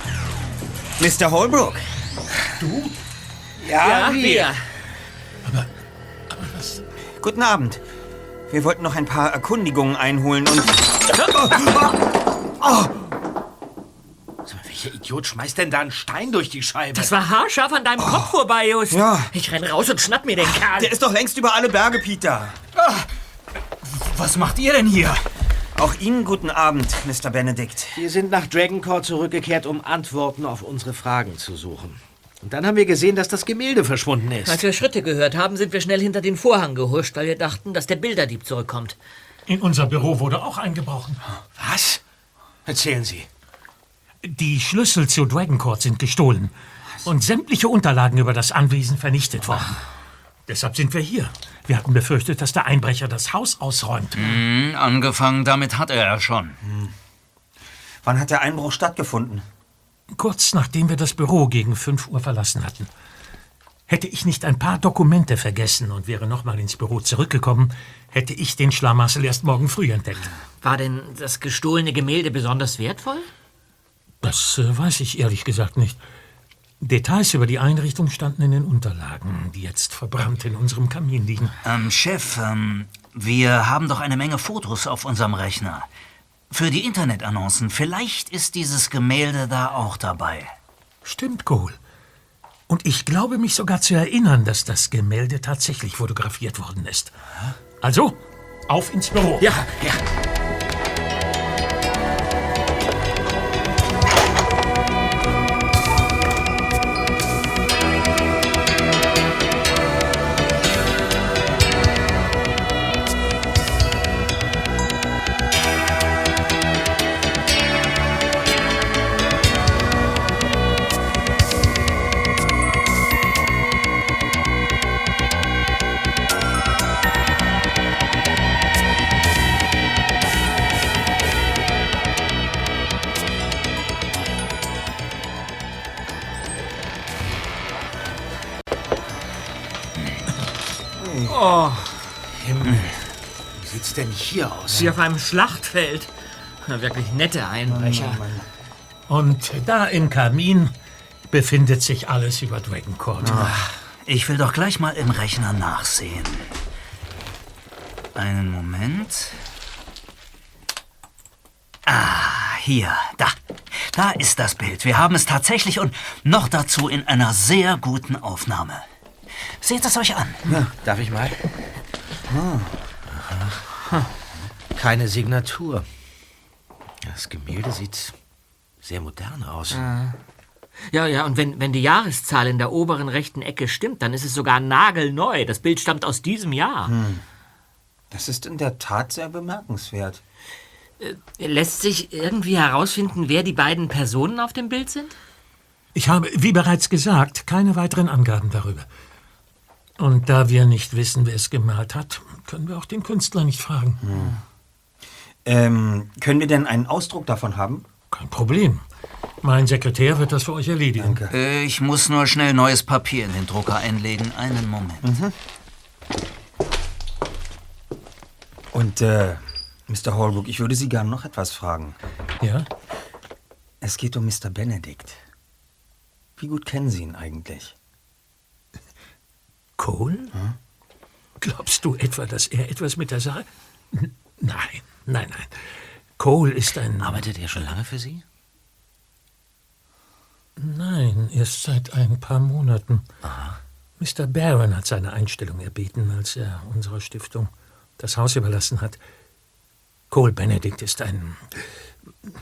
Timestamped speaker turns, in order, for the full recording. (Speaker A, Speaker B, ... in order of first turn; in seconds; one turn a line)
Speaker A: 1.0-1.9
Speaker B: 2.6-2.9
Speaker C: 3.6-4.5
Speaker D: 3.8-4.7
Speaker B: 6.3-6.8
Speaker A: 7.2-7.8
Speaker A: 8.5-11.9
Speaker A: 12.6-12.9
Speaker C: 14.4-17.1
Speaker D: 16.9-20.9
Speaker A: 18.0-18.4
Speaker A: 18.9-19.3
Speaker A: 20.4-22.6
Speaker E: 22.8-23.1
Speaker E: 23.9-25.2
Speaker A: 25.7-28.0
Speaker C: 27.9-34.6
Speaker D: 34.5-39.0
Speaker B: 39.5-41.2
Speaker C: 41.6-42.0
Speaker C: 42.6-43.3
Speaker B: 44.2-46.5
Speaker B: 47.0-49.8
Speaker B: 50.5-54.4
Speaker E: 54.1-56.6
Speaker A: 56.6-56.9
Speaker A: 58.0-59.4
Speaker B: 60.1-62.9
Speaker B: 63.9-70.3
Speaker D: 70.6-73.3
Speaker B: 74.2-76.0
Speaker B: 76.8-81.6
Speaker E: 81.6-85.9
Speaker E: 86.5-90.5
Speaker B: 91.0-91.8
Speaker B: 92.7-97.1
Speaker B: 97.8-98.2
Speaker B: 98.7-99.4
Speaker C: 99.4-100.0
Speaker A: 141.0-141.4
Speaker D: 141.3-142.0
Speaker C: 142.3-143.0
Speaker C: 143.6-145.0
Speaker D: 144.7-146.1
Speaker D: 146.6-148.2
Speaker A: 147.7-148.4
Speaker B: 149.1-150.7
Speaker B: 151.3-153.5
Speaker C: 153.2-153.7
Speaker A: 153.2-153.6
Speaker E: 154.1-156.5
Speaker E: 158.1-159.4
Speaker E: 161.8-168.8
Speaker E: 169.6-170.4
Speaker C: 170.8-171.5
Speaker A: 172.3-172.7
Speaker C: 173.1-173.6
Speaker C: 174.7-175.8
Speaker C: 177.0-178.1
Speaker C: 178.8-179.8
Speaker D: 179.7-180.2
Speaker D: 180.9-186.9
Speaker A: 186.8-187.2
Speaker A: 188.1-190.2
Speaker D: 191.0-195.2
Speaker B: 195.9-198.9
Speaker B: 200.0-204.0
Speaker A: 204.0-204.4
Speaker A: 205.4-207.8
Speaker B: 208.1-208.8
Speaker B: 209.4-211.2
Speaker A: 211.0-211.3
Speaker E: 211.3-215.1
Speaker A: 215.0-215.3
Speaker A: 218.7-222.0
Speaker B: 222.4-222.7
Speaker A: 223.8-225.2
Speaker A: 226.4-227.7
Speaker B: 229.8-230.3
Speaker B: 231.4-235.6
Speaker B: 236.2-237.3
Speaker C: 237.0-238.2
Speaker B: 240.6-243.1
Speaker C: 243.2-243.6
Speaker B: 244.0-249.0
Speaker B: 250.1-251.6